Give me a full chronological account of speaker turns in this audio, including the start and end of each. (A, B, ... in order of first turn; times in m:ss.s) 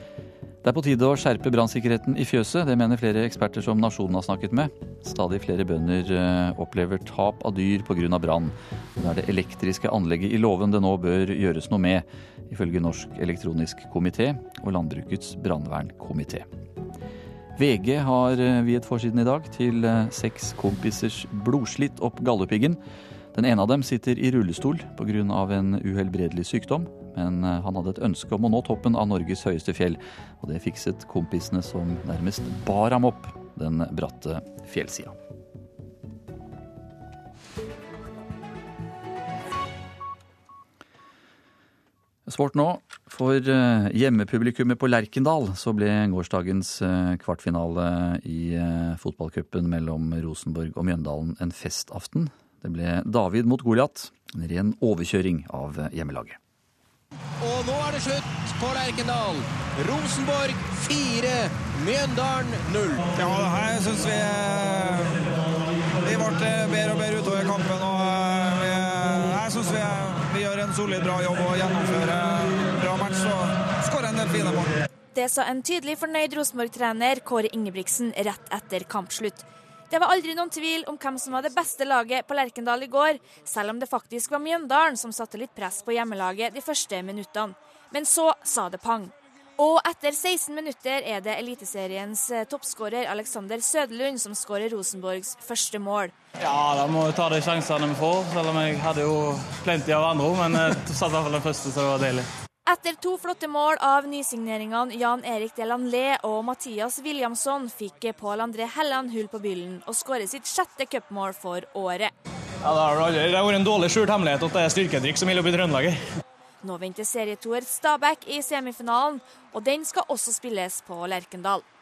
0:00.6-0:16.5 A
0:17.6-0:22.8 A
0:23.3-0:35.2 A
0:42.3-0:56.4 A
0:57.4-1:03.0 B
1:03.1-1:05.2 C
1:06.0-1:14.8 C
1:15.1-1:36.1 D
1:36.4-1:42.3 E
1:42.7-1:52.1 D
1:52.6-1:56.0 E
1:56.6-2:01.6 D